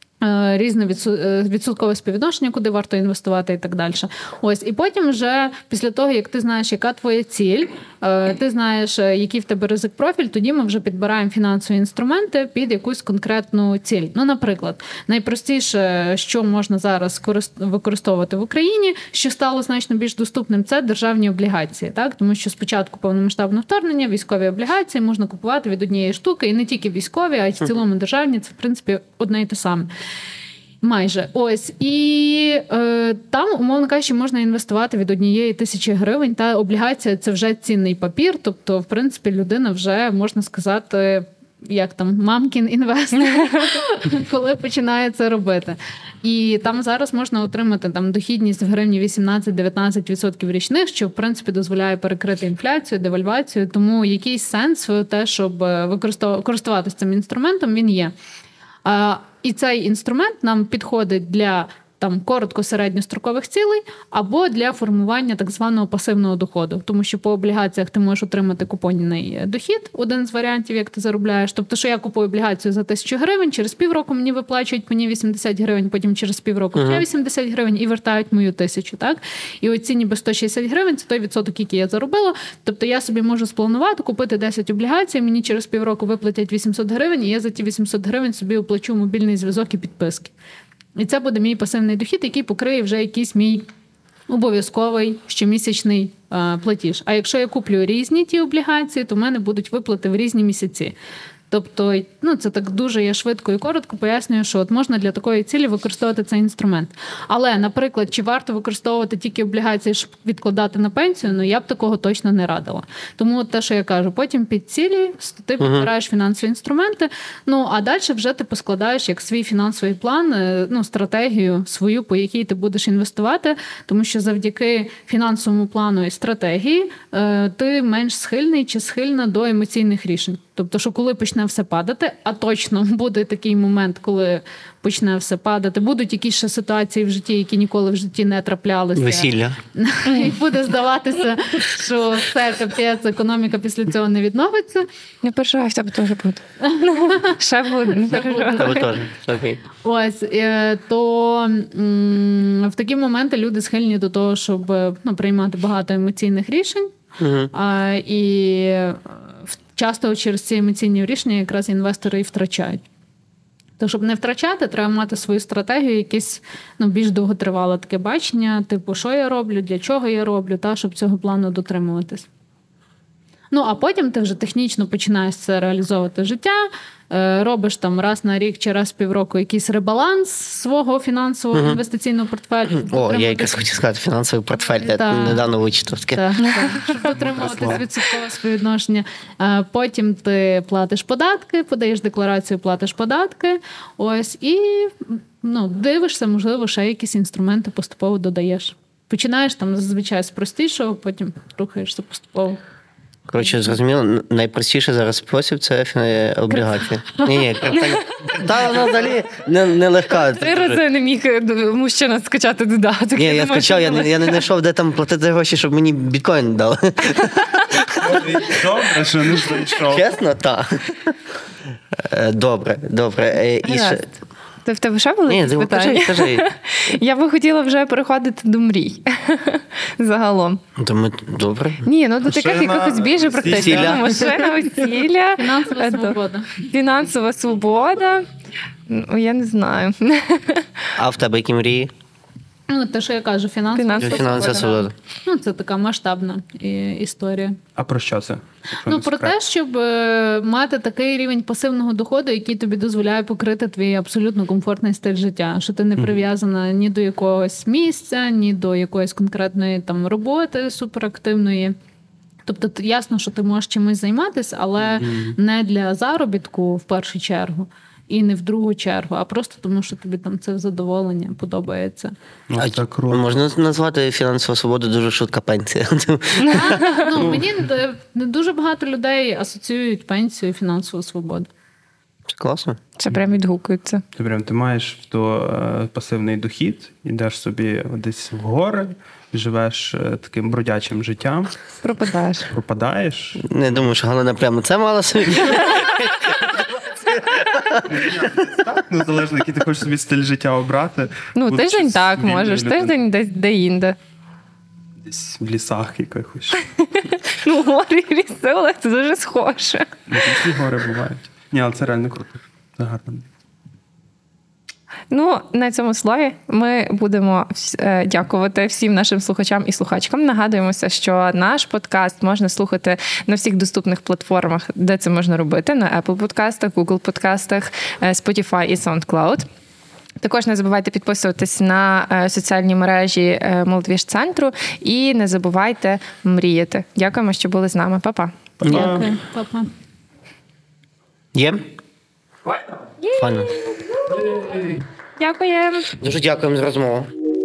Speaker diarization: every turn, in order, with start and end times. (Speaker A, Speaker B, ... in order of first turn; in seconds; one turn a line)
Speaker A: 0.2-29.9
Speaker A: 30.8-58.1
Speaker A: 58.8-90.3
Speaker B: 76.8-77.0
Speaker A: 91.0-93.7
Speaker A: 94.3-100.9
Speaker A: 101.5-144.9
Speaker B: 115.6-115.9
Speaker B: 138.9-139.6
Speaker C: 145.2-148.9
Speaker A: 146.8-147.4
Speaker A: 148.0-148.8
Speaker B: 148.1-149.6
Speaker A: 149.8-156.9
Speaker B: 157.2-157.5
Speaker A: 157.5-162.8
Speaker A: 163.8-172.3
Speaker A: 173.5-183.6
Speaker B: 181.5-181.8
Speaker B: 182.8-186.2
Speaker A: 184.8-185.5
Speaker A: 186.1-202.6
Speaker D: 187.1-187.8
Speaker B: 203.3-210.8
Speaker C: 210.3-214.4
Speaker B: 213.2-218.6
Speaker D: 218.0-220.0
Speaker B: 219.8-221.1
Speaker B: 221.9-224.0
Speaker C: 223.6-224.1
Speaker C: 224.6-230.6
Speaker B: 225.3-226.4
Speaker B: 230.8-231.8
Speaker C: 231.8-238.2
Speaker D: 232.2-234.9
Speaker B: 233.5-234.2
Speaker A: 235.4-236.6
Speaker C: 238.9-240.8
Speaker B: 241.0-241.9
Speaker A: 242.7-247.6
Speaker C: 243.8-244.7
Speaker B: 244.0-244.9
Speaker D: 247.8-249.3
Speaker A: 248.9-261.7
Speaker A: 262.4-272.1
Speaker D: 264.9-265.4
Speaker D: 272.5-273.4
Speaker B: 272.6-277.3
Speaker C: 276.4-276.9
Speaker A: 276.5-281.5
Speaker D: 277.2-277.4
Speaker B: 282.3-282.8
Speaker C: 283.0-284.0
Speaker D: 284.1-291.6
Speaker C: 291.8-292.5
Speaker D: 292.5-293.4
Speaker B: 293.4-298.2
Speaker D: 297.9-302.9
Speaker C: 301.4-304.0
Speaker D: 305.0-306.6
Speaker C: 306.9-309.9
Speaker D: 310.1-313.2
Speaker C: 315.1-329.5
Speaker C: 330.2-338.4
Speaker D: 338.6-339.1
Speaker A: 338.7-339.7
Speaker B: 341.3-341.6
Speaker C: 343.0-345.9
Speaker B: 343.2-343.5
Speaker B: 346.0-347.1